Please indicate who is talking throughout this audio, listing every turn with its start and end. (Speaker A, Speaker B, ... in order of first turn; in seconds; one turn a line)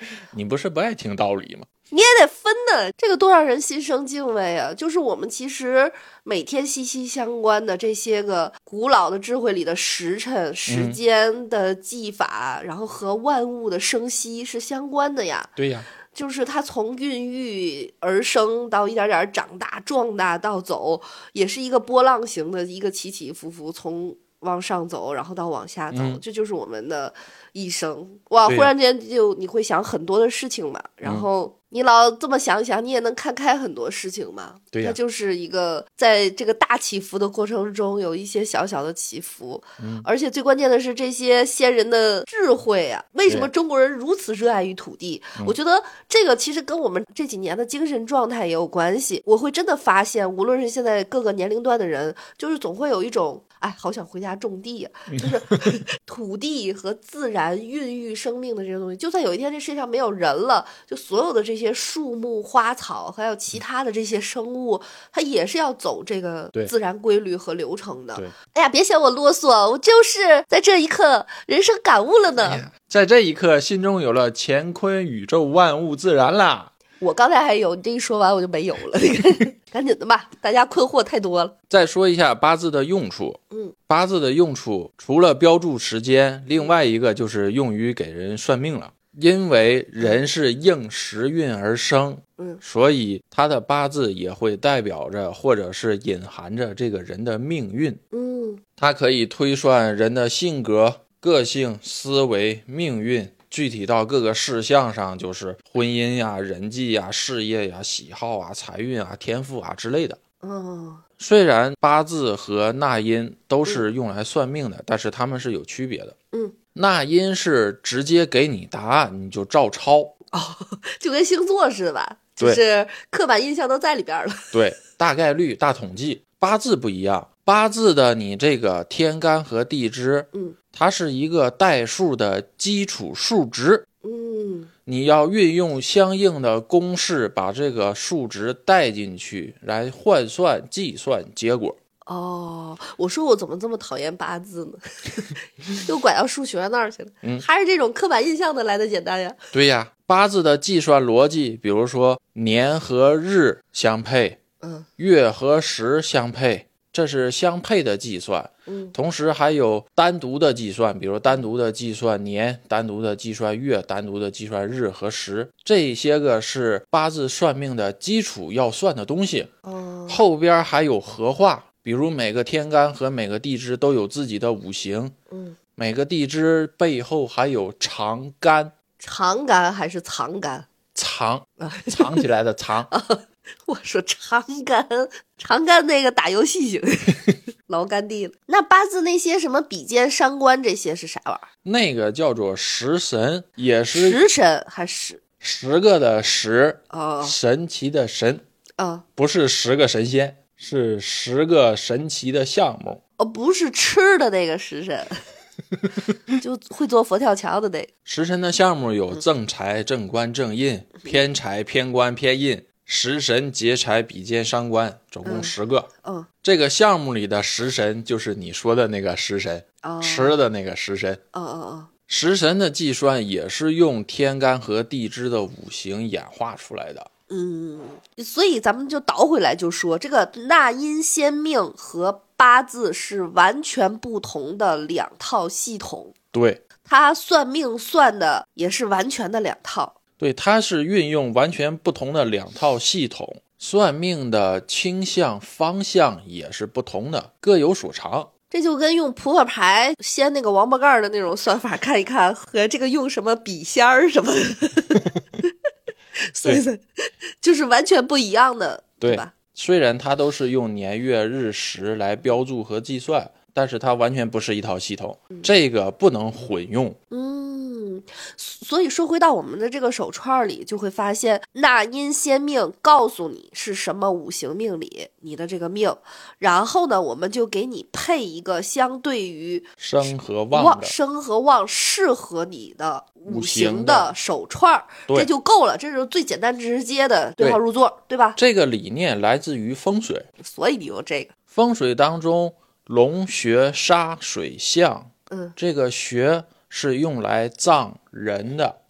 Speaker A: 0.3-1.7
Speaker B: 1.9-15.5
Speaker A: 10.7-11.0
Speaker A: 15.6-15.9
Speaker B: 16.1-72.6
Speaker A: 25.9-26.2
Speaker A: 28.5-28.7
Speaker A: 34.7-35.0
Speaker A: 39.8-40.1
Speaker A: 55.2-55.5
Speaker A: 72.4-76.7
Speaker B: 77.0-81.5
Speaker A: 81.7-98.0
Speaker B: 98.1-98.6
Speaker A: 98.8-110.2
Speaker B: 110.4-111.0
Speaker A: 111.2-116.2
Speaker A: 116.8-120.1
Speaker B: 120.3-124.6
Speaker A: 124.5-133.9
Speaker B: 134.0-134.7
Speaker A: 134.9-141.8
Speaker B: 142.1-149.4
Speaker A: 149.5-154.4
Speaker B: 154.6-154.9
Speaker A: 155.0-169.5
Speaker B: 158.7-158.9
Speaker B: 169.7-170.2
Speaker A: 170.1-175.2
Speaker B: 175.3-175.6
Speaker A: 175.8-178.7
Speaker B: 179.0-180.7
Speaker A: 180.9-182.9
Speaker B: 181.6-182.2
Speaker B: 182.9-191.5
Speaker A: 191.7-194.2
Speaker B: 193.9-195.2
Speaker A: 195.4-198.4
Speaker B: 196.9-197.3
Speaker B: 198.8-199.1
Speaker A: 199.2-203.0
Speaker B: 203.2-205.2
Speaker B: 206.4-207.9
Speaker A: 208.1-215.9
Speaker B: 215.2-216.3
Speaker A: 216.4-221.2
Speaker B: 219.8-220.4
Speaker B: 221.3-221.9
Speaker A: 222.1-227.1
Speaker B: 227.3-236.1
Speaker A: 236.3-236.6
Speaker B: 236.8-240.0
Speaker A: 240.2-248.3
Speaker B: 248.5-255.5
Speaker B: 256.2-259.3
Speaker A: 259.0-267.0
Speaker B: 267.1-288.4
Speaker A: 279.8-280.9
Speaker A: 283.3-284.1
Speaker A: 288.4-290.3
Speaker B: 290.4-291.3
Speaker A: 291.5-298.8
Speaker B: 295.3-295.6